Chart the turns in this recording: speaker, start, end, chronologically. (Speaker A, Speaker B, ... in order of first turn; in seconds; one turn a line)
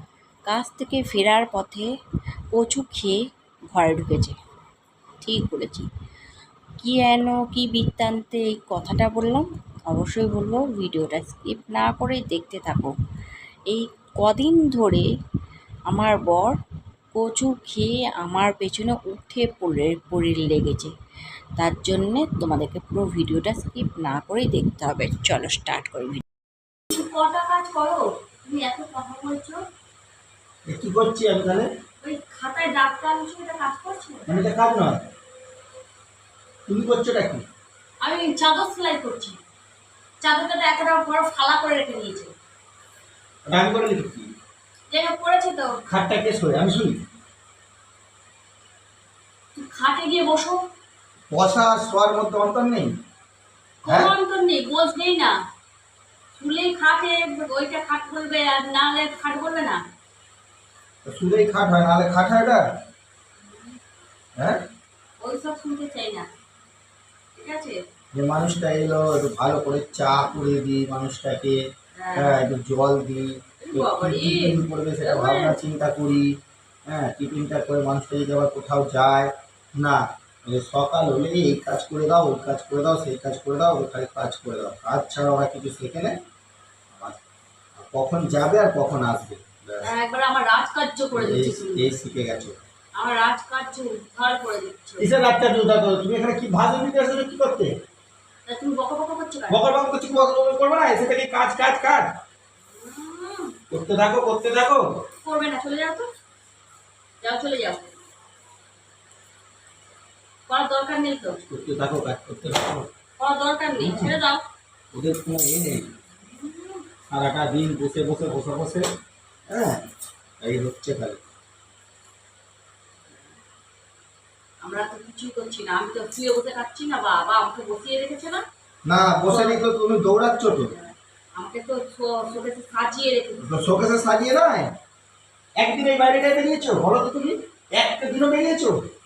Speaker A: 0.5-1.9
Speaker A: 2.5-3.2
Speaker A: 3.7-4.3
Speaker A: 5.2-5.9
Speaker A: 6.8-12.9
Speaker A: 13.7-15.1
Speaker A: 15.9-16.6
Speaker A: 17.1-20.9
Speaker A: 21.6-26.2
Speaker B: 26.9-29.6
Speaker C: 30.7-31.7
Speaker B: 32.0-34.4
Speaker C: 34.3-35.0
Speaker C: 36.7-37.4
Speaker B: 38.0-39.4
Speaker B: 40.2-42.3
Speaker C: 43.5-44.3
Speaker B: 44.9-45.8
Speaker C: 45.9-47.0
Speaker B: 49.5-50.6
Speaker C: 51.3-52.9
Speaker B: 53.8-55.3
Speaker C: 53.9-54.1
Speaker B: 56.4-59.8
Speaker C: 61.0-62.6
Speaker C: 64.4-64.6
Speaker B: 65.2-66.3
Speaker B: 67.3-67.8
Speaker C: 68.1-71.6
Speaker B: 72.0-72.4
Speaker C: 72.2-76.3
Speaker B: 73.6-75.6
Speaker C: 76.8-86.2
Speaker C: 86.9-87.2
Speaker C: 87.7-89.9
Speaker B: 89.8-91.9
Speaker C: 91.1-92.6
Speaker B: 93.0-95.2
Speaker C: 95.0-97.7
Speaker B: 98.5-99.7
Speaker C: 99.5-102.2
Speaker B: 102.7-103.5
Speaker C: 103.7-104.9
Speaker B: 105.2-106.0
Speaker B: 107.2-107.9
Speaker B: 110.5-111.4
Speaker C: 111.5-112.9
Speaker B: 113.2-114.4
Speaker C: 113.7-114.2
Speaker C: 114.9-115.9
Speaker B: 116.3-116.8
Speaker C: 117.1-118.9
Speaker C: 119.5-119.9
Speaker C: 120.4-121.3
Speaker B: 124.6-128.4
Speaker C: 128.8-130.7
Speaker B: 129.3-129.6
Speaker B: 131.3-133.5
Speaker C: 133.4-134.7
Speaker C: 135.6-138.8